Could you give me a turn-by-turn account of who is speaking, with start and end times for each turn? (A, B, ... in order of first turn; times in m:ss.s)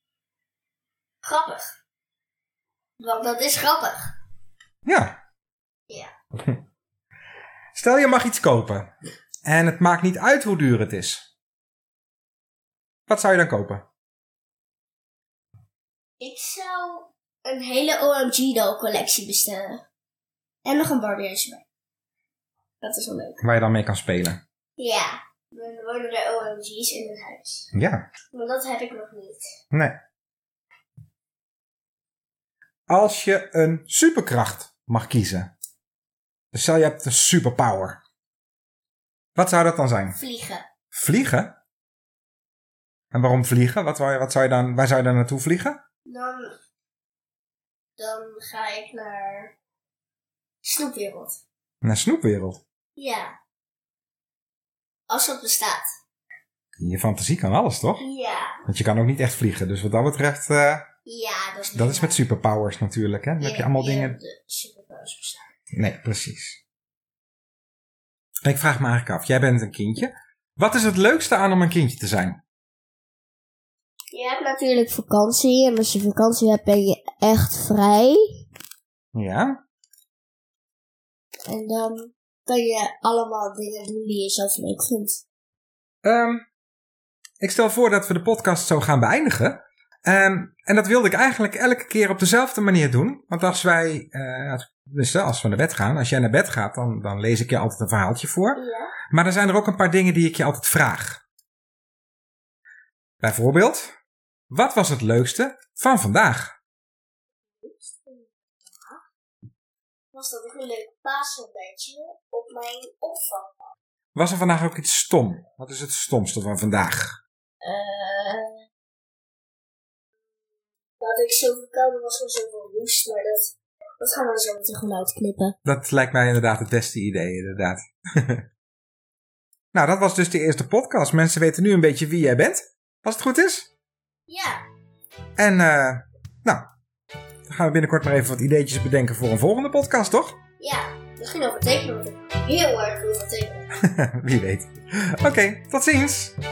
0:01.2-0:01.7 A
0:03.0-0:04.1 A
0:04.8-0:05.2 B
0:07.7-0:08.9 B
0:09.4-0:11.2 B
0:13.1-0:13.8 B
0:16.2-0:19.8 A
0:20.6-0:21.6 A
0:22.8-0:23.4 A
0:23.4-0:24.4 B
0:24.8-0:27.7 A
0:27.7-0:28.0 B
0:28.3-0:29.4 A
0:29.7-0:30.0 B
0:32.9-0:35.5 B
0:36.5-0:38.0 B
0:39.4-0:40.2 B
0:40.2-0:40.6 A
0:40.9-0:41.6 B
0:43.1-0:45.8 B
0:46.0-0:46.6 A
0:48.0-0:49.5 A
0:50.6-0:51.4 A
0:51.8-0:52.6 B
0:53.0-0:53.3 A
0:55.1-0:55.8 A
0:56.8-0:58.0 B
0:58.0-0:58.6 A
0:58.7-1:00.9 B
1:01.0-1:02.2 A
1:01.7-1:04.2 B
1:03.4-1:05.4 A
1:05.7-1:06.6 B
1:08.4-1:12.4 B
1:14.1-1:18.4 A
1:19.1-1:19.6 B
1:21.5-1:25.2 A
1:26.0-1:26.4 B
1:27.4-1:41.2 B
1:38.5-1:38.9 A
1:43.2-1:43.9 B
1:44.5-1:46.5 B
1:47.6-1:49.0 A
1:50.1-1:53.6 A
1:54.1-1:57.2 B
1:57.6-1:58.6 A
2:01.0-2:05.6 A
2:05.6-2:08.4 B
2:09.7-2:13.7 B
2:14.3-2:14.6 A
2:15.4-2:16.6 B
2:17.5-2:20.4 B
2:20.6-2:23.7 A
2:23.8-2:26.4 B